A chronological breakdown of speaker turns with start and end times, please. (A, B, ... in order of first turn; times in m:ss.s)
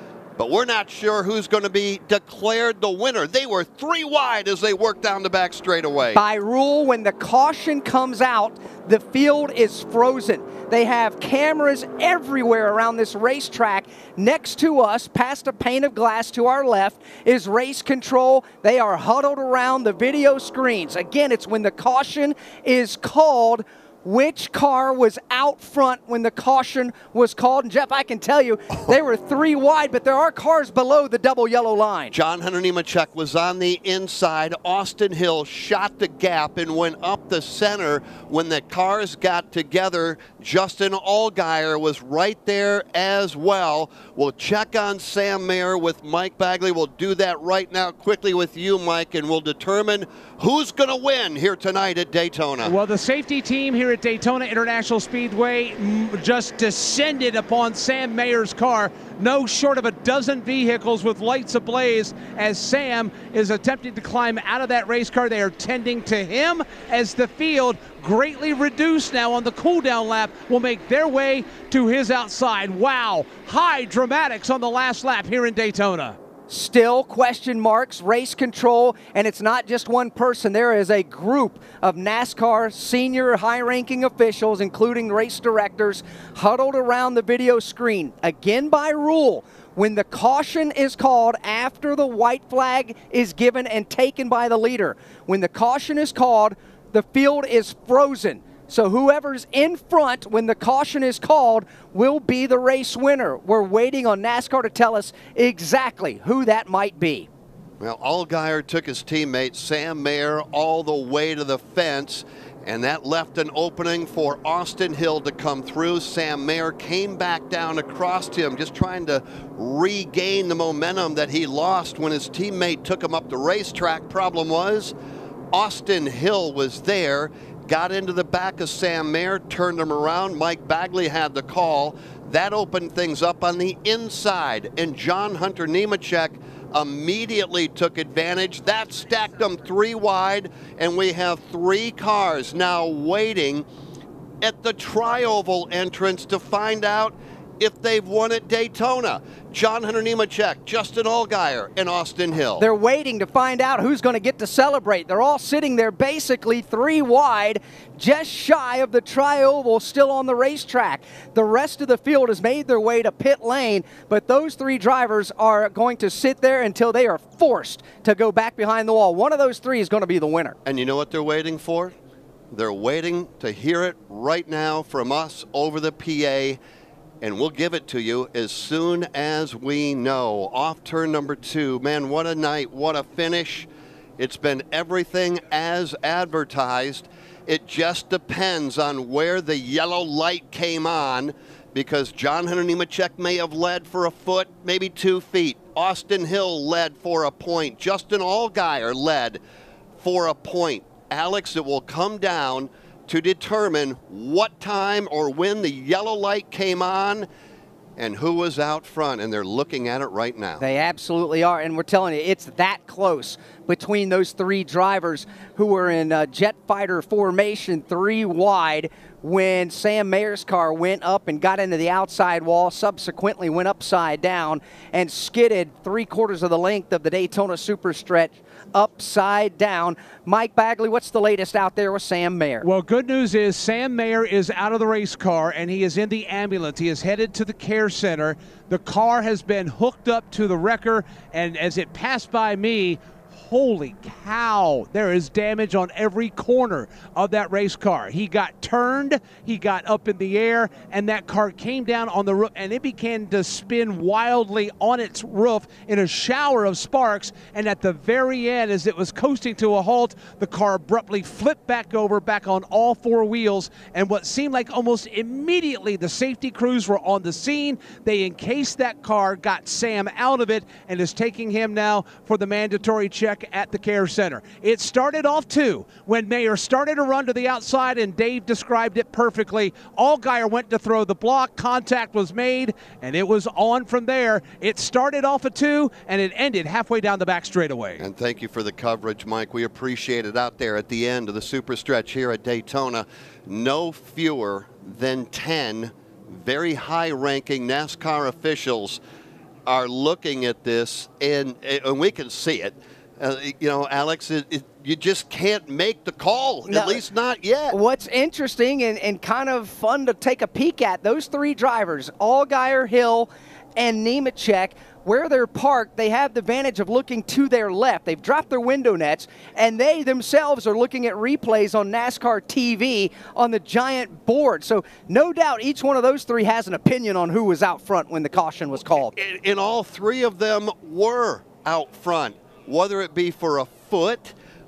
0:00.4-0:06.2 A
0:06.1-0:32.1 B
0:32.1-0:52.7 A
0:52.6-1:16.2 C
1:16.5-1:47.2 B
1:47.8-2:04.9 A
2:05.5-2:23.7 A
2:24.4-2:32.6 A
2:32.6-2:50.5 B
2:50.6-2:51.9 A
2:52.5-2:56.6 A
2:57.2-3:19.4 A
3:20.0-3:27.3 A
3:28.0-3:30.6 A
3:30.6-3:52.6 B
3:52.6-4:48.0 C
4:48.0-4:59.0 A
4:59.7-5:07.8 A
5:06.7-5:07.0 B
5:07.7-5:29.1 B
5:28.9-5:34.3 A